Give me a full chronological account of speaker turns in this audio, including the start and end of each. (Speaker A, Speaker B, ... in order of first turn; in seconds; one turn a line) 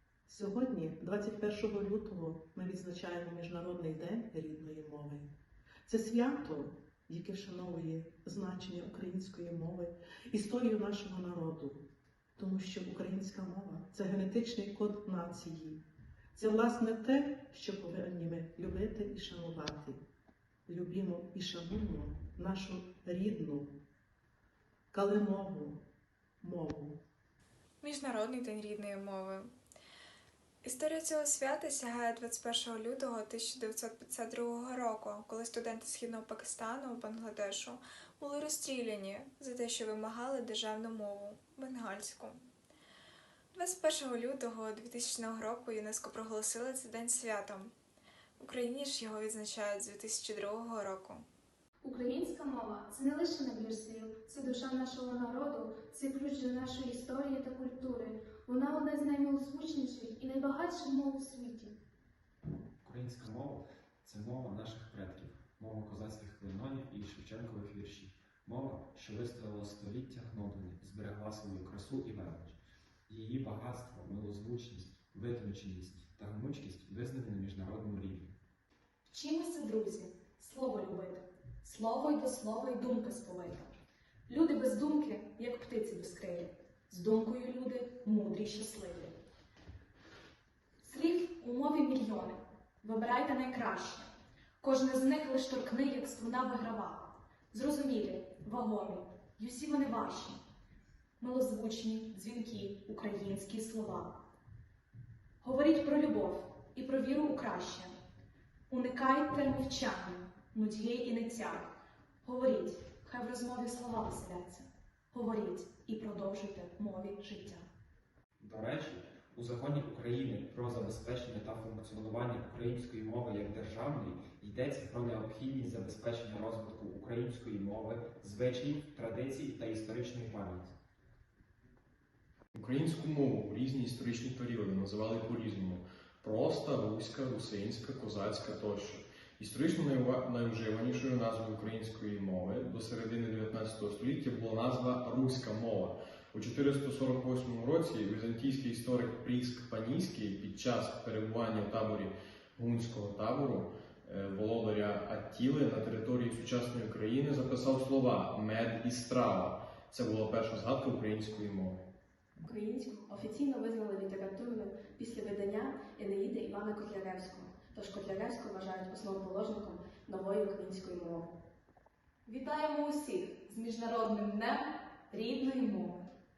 Speaker A: 0.3-5.3
Speaker A: 5.9-11.8
Speaker A: 12.4-15.8
Speaker A: 16.4-20.0
Speaker A: 20.7-23.7
Speaker A: 24.9-25.8
Speaker A: 26.4-27.0
Speaker B: 27.8-29.5
Speaker B: 30.6-42.5
Speaker B: 43.5-47.7
Speaker B: 48.4-51.3
Speaker C: 51.8-61.8
Speaker D: 62.8-78.4
Speaker E: 79.0-83.7
Speaker E: 84.3-89.2
Speaker E: 90.8-94.1
Speaker E: 94.6-100.4
Speaker E: 101.2-104.1
Speaker E: 105.4-107.9
Speaker E: 108.7-111.7
Speaker E: 112.2-117.7
Speaker D: 118.4-130.8
Speaker F: 132.5-161.8
Speaker G: 162.4-171.3
Speaker E: 172.3-176.1